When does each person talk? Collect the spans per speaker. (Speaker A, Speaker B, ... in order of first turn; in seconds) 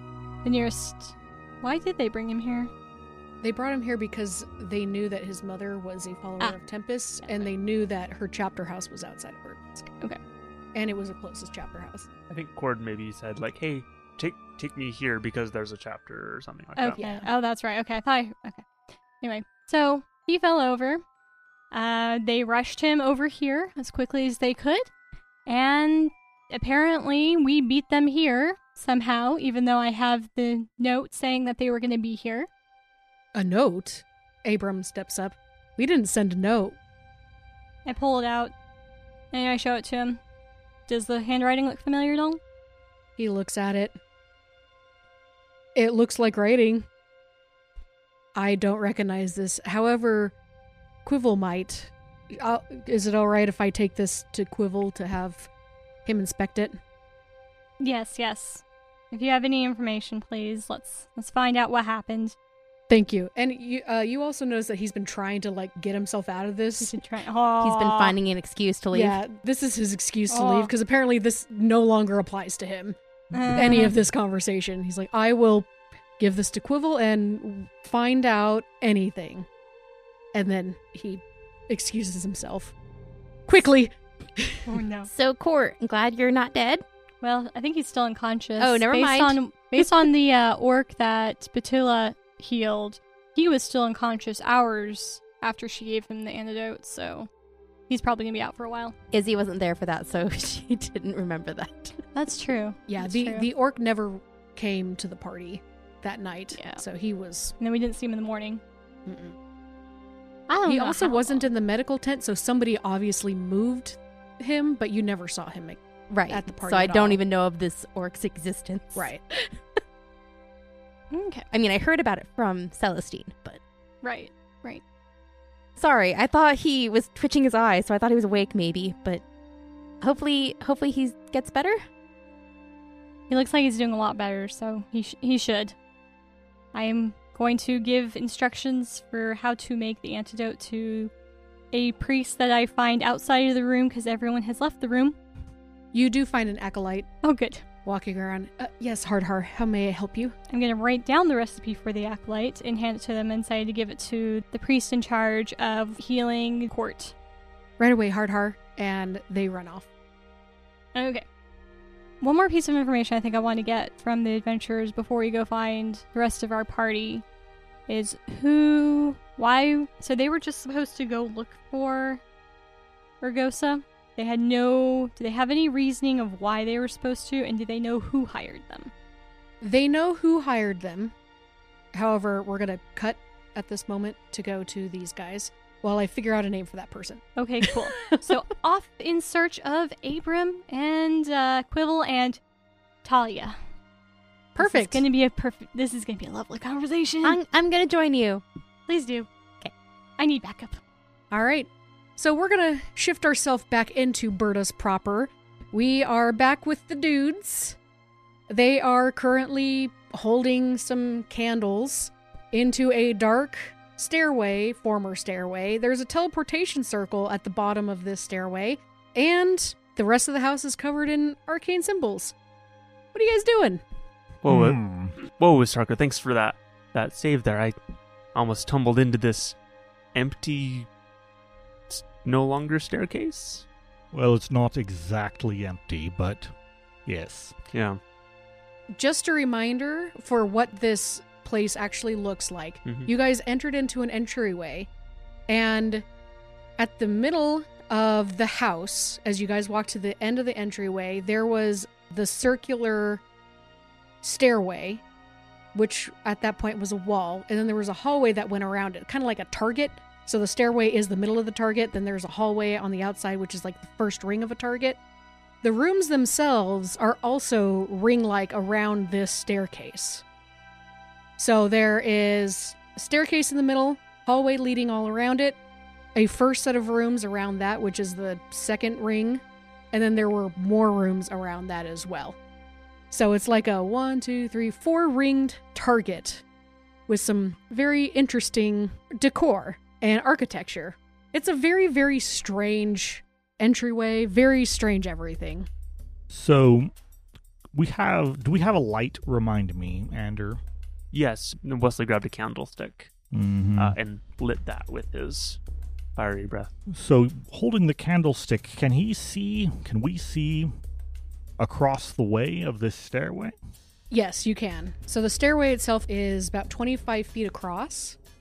Speaker A: 0.4-2.7, 16.8-18.7, 19.2-21.0, 21.7-24.9, 25.4-32.5, 37.9-38.5, 39.3-40.2, 40.9-42.4, 57.8-62.4, 66.8-68.2, 70.3-70.7, 73.3-74.0, 84.7-85.1, 87.2-97.3, 97.9-98.9, 102.1-103.5, 106.5-106.8, 107.6-108.6, 110.5-111.5, 121.1-121.5, 124.0-124.8, 133.3-135.7, 136.7-141.1, 141.7-145.2, 147.2-147.6, 150.5-157.1, 160.9-161.2, 162.2-167.2, 167.9-172.2, 173.2-178.9, 187.4-192.4, 193.0-193.6, 194.6-197.4, 198.9-199.3, 200.2-200.8
Speaker B: 3.4-9.8, 10.7-12.1, 17.0-17.3, 33.3-36.8, 43.2-44.0, 45.7-46.9, 48.3-50.3, 51.0-55.5, 56.0-56.8, 62.9-67.0, 68.9-73.0, 73.5-79.5, 80.3-82.7, 83.5-84.6, 102.9-107.5, 109.0-109.3, 110.7-117.2, 119.0-119.2, 145.9-147.1, 147.8-150.3, 157.8-159.9, 179.6-181.1, 181.9-187.2, 194.5-195.0, 201.3-207.8, 208.5-222.3, 223.1-223.8, 238.9-244.9, 245.5-246.0, 246.8-253.2, 254.2-255.0, 255.7-265.0, 265.6-270.2, 271.4-275.6, 276.1-282.4, 283.1-286.4, 287.1-295.7, 314.1-318.2
Speaker C: 12.3-17.0, 224.4-227.8, 228.3-229.6, 230.1-230.9, 231.9-233.7, 237.7-238.0, 242.8-243.1, 301.1-303.1, 303.8-305.6, 306.1-306.7
Speaker D: 67.6-69.2, 85.1-86.8, 88.6-89.4, 99.1-102.0, 116.1-119.1, 121.5-123.6, 125.8-129.2, 130.0-131.8, 197.2-198.4
Speaker E: 224.5-225.1, 234.1-236.5, 237.1-237.5, 296.3-296.9, 297.7-300.6, 303.3-303.9, 306.9-310.7, 311.6-313.6